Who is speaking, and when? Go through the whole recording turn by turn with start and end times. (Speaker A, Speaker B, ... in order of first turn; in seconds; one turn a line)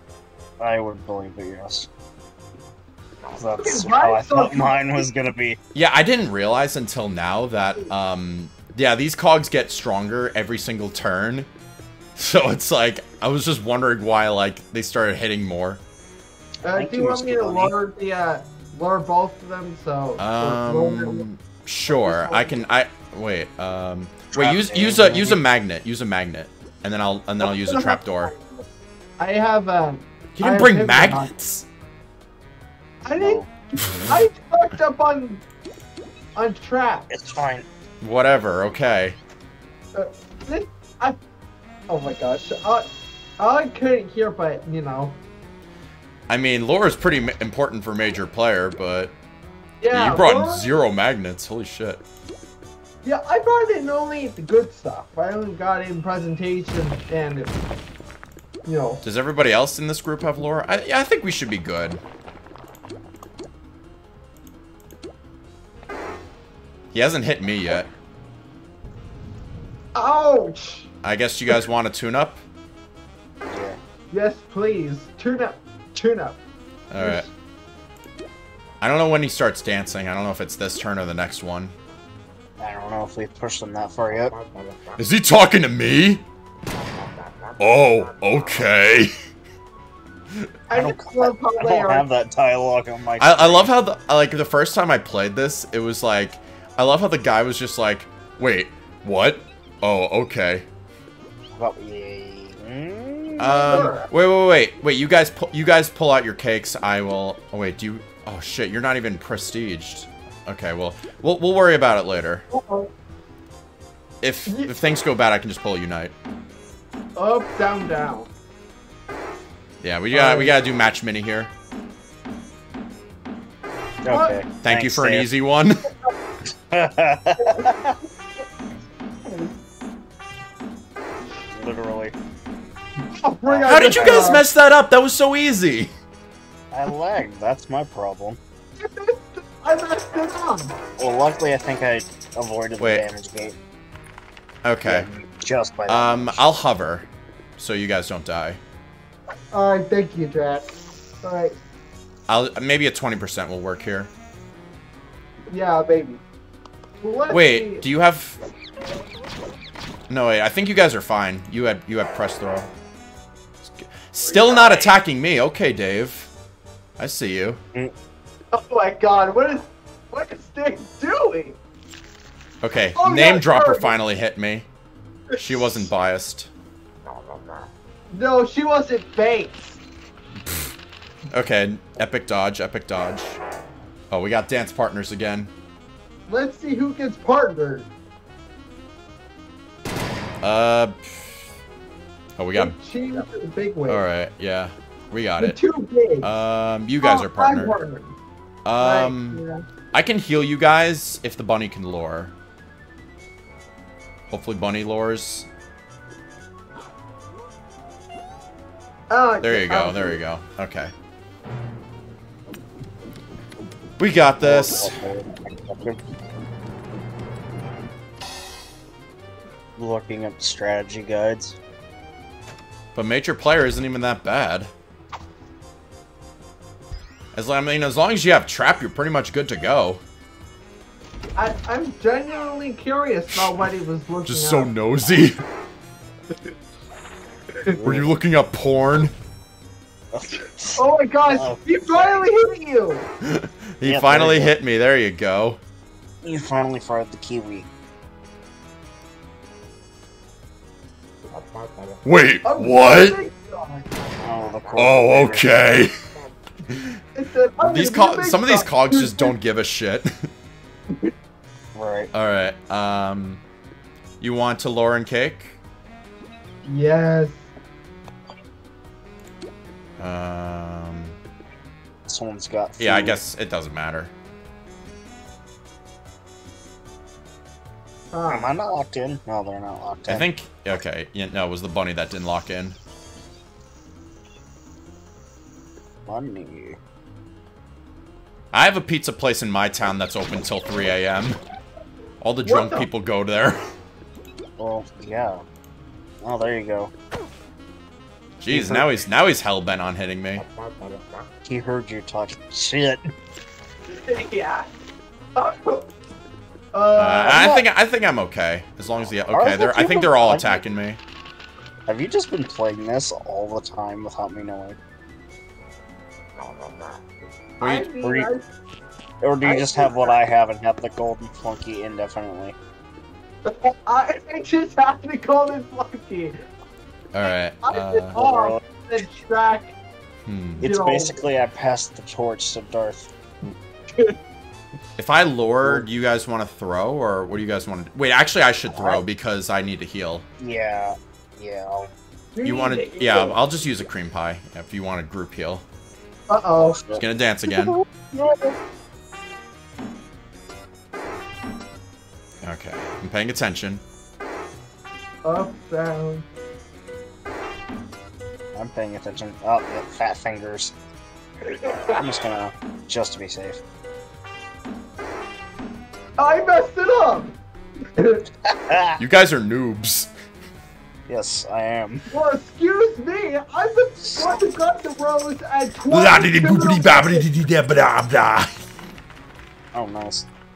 Speaker A: 0.6-1.9
Speaker A: 3.3-5.6
Speaker B: 3.6-5.1
Speaker C: 5.7-11.5
Speaker C: 12.2-15.8
Speaker B: 16.6-21.2
Speaker A: 16.7-17.7
Speaker C: 20.2-28.3
Speaker B: 21.9-22.6
Speaker A: 24.3-25.4
Speaker B: 27.4-28.6
Speaker B: 29.2-31.3
Speaker C: 30.4-31.6
Speaker B: 33.0-35.4
Speaker A: 33.2-33.5
Speaker B: 36.4-37.1
Speaker A: 37.1-37.7
Speaker C: 38.0-39.2
Speaker B: 39.9-41.2
Speaker B: 41.9-45.2
Speaker C: 46.3-49.1
Speaker B: 49.8-50.7
Speaker C: 49.9-52.0
Speaker B: 53.0-57.5
Speaker B: 58.6-59.0
Speaker C: 59.0-62.0
Speaker C: 66.9-67.9
Speaker B: 69.9-70.9
Speaker C: 71.0-72.4
Speaker A: 73.5-73.8
Speaker B: 74.1-76.4
Speaker C: 76.9-77.3
Speaker B: 77.0-77.3
Speaker C: 78.8-81.7
Speaker A: 82.6-84.3
Speaker C: 85.0-86.2
Speaker C: 87.6-89.1
Speaker B: 90.7-92.1
Speaker A: 90.7-93.7
Speaker C: 93.2-100.6
Speaker A: 101.5-103.9
Speaker C: 103.4-112.4
Speaker B: 103.5-104.1
Speaker B: 112.5-112.9
Speaker C: 114.2-116.1
Speaker B: 114.5-114.8
Speaker B: 117.2-118.3
Speaker C: 119.8-121.5
Speaker B: 120.1-120.5
Speaker A: 124.0-125.3
Speaker B: 124.1-124.4
Speaker C: 124.6-125.8
Speaker A: 126.5-128.0
Speaker B: 127.4-127.9
Speaker B: 129.2-129.5
Speaker A: 131.5-132.1
Speaker B: 133.0-134.4
Speaker A: 133.4-134.3
Speaker C: 133.7-135.9
Speaker A: 136.7-138.4
Speaker B: 138.8-140.8
Speaker A: 141.0-143.6
Speaker C: 142.8-143.0
Speaker C: 144.6-145.1
Speaker A: 144.8-146.4
Speaker C: 145.9-148.6
Speaker B: 149.5-150.7
Speaker B: 151.2-151.6
Speaker C: 152.3-154.1
Speaker B: 155.5-156.2
Speaker B: 157.0-157.8
Speaker C: 157.3-158.4
Speaker C: 160.1-162.7
Speaker C: 163.7-166.3
Speaker B: 164.2-164.9
Speaker C: 167.0-167.6
Speaker B: 168.5-171.6
Speaker C: 172.6-174.7
Speaker B: 172.9-173.9
Speaker B: 175.3-175.8
Speaker C: 175.3-176.5
Speaker B: 178.1-179.8
Speaker C: 180.4-180.7
Speaker C: 181.3-183.4
Speaker C: 184.1-185.5
Speaker B: 186.3-187.9
Speaker C: 190.4-191.4
Speaker C: 192.4-192.7
Speaker B: 192.6-194.0
Speaker C: 193.9-195.6
Speaker B: 195.4-196.3
Speaker C: 196.2-197.7
Speaker B: 197.0-198.2
Speaker C: 198.6-202.3
Speaker B: 198.8-199.6
Speaker C: 204.3-205.5
Speaker B: 209.1-210.2
Speaker C: 209.4-210.9
Speaker C: 214.0-214.9
Speaker A: 214.4-216.0
Speaker A: 219.8-221.6
Speaker C: 222.9-224.7
Speaker C: 227.3-230.0
Speaker B: 231.3-234.7
Speaker C: 233.3-233.6
Speaker C: 234.2-235.4
Speaker A: 237.7-238.1
Speaker C: 237.8-239.1
Speaker A: 240.1-242.2
Speaker B: 240.7-243.1
Speaker C: 243.2-245.6
Speaker A: 243.8-244.5
Speaker A: 246.2-247.7
Speaker C: 252.0-253.2
Speaker B: 252.4-253.8
Speaker A: 254.2-255.4
Speaker C: 254.8-255.9
Speaker C: 256.7-257.0
Speaker B: 257.1-259.3
Speaker C: 257.6-260.3
Speaker A: 261.7-262.1
Speaker C: 262.1-263.4
Speaker C: 264.2-265.6
Speaker B: 266.6-267.5
Speaker C: 270.0-271.2
Speaker A: 272.1-273.2
Speaker C: 272.8-274.1
Speaker B: 278.1-278.5
Speaker A: 278.3-280.3
Speaker C: 280.1-282.8
Speaker A: 286.1-286.8
Speaker C: 288.5-291.4
Speaker C: 292.2-293.6
Speaker B: 292.4-292.9
Speaker A: 294.6-295.4
Speaker A: 296.2-296.9
Speaker C: 298.4-300.4
Speaker A: 298.5-298.9
Speaker A: 301.4-303.1
Speaker B: 303.9-304.7
Speaker B: 305.3-305.9
Speaker B: 306.7-307.5
Speaker C: 306.9-311.0
Speaker A: 307.3-307.6
Speaker A: 309.3-310.6
Speaker A: 311.9-314.8
Speaker B: 317.6-318.4
Speaker C: 317.6-317.9
Speaker A: 318.0-318.3
Speaker A: 319.2-322.6
Speaker B: 319.4-320.2
Speaker B: 323.4-326.4
Speaker C: 327.1-328.2
Speaker B: 327.3-329.7
Speaker A: 328.1-328.6
Speaker C: 330.2-330.6
Speaker A: 330.6-333.1
Speaker B: 330.6-331.2
Speaker C: 335.0-340.2
Speaker A: 338.7-339.0
Speaker A: 340.4-341.9
Speaker B: 342.4-343.4
Speaker C: 342.4-345.6
Speaker B: 346.3-346.8
Speaker A: 346.6-347.0
Speaker C: 347.0-347.8
Speaker B: 347.5-348.6
Speaker C: 352.4-353.8
Speaker B: 355.2-356.2
Speaker A: 358.5-360.7
Speaker B: 361.5-362.1
Speaker A: 361.9-363.6
Speaker B: 366.2-367.3
Speaker B: 367.9-368.2
Speaker A: 368.4-369.0
Speaker C: 369.0-370.1
Speaker A: 371.1-372.0
Speaker B: 372.1-377.3
Speaker A: 374.0-374.3
Speaker C: 375.9-378.5
Speaker A: 379.7-380.3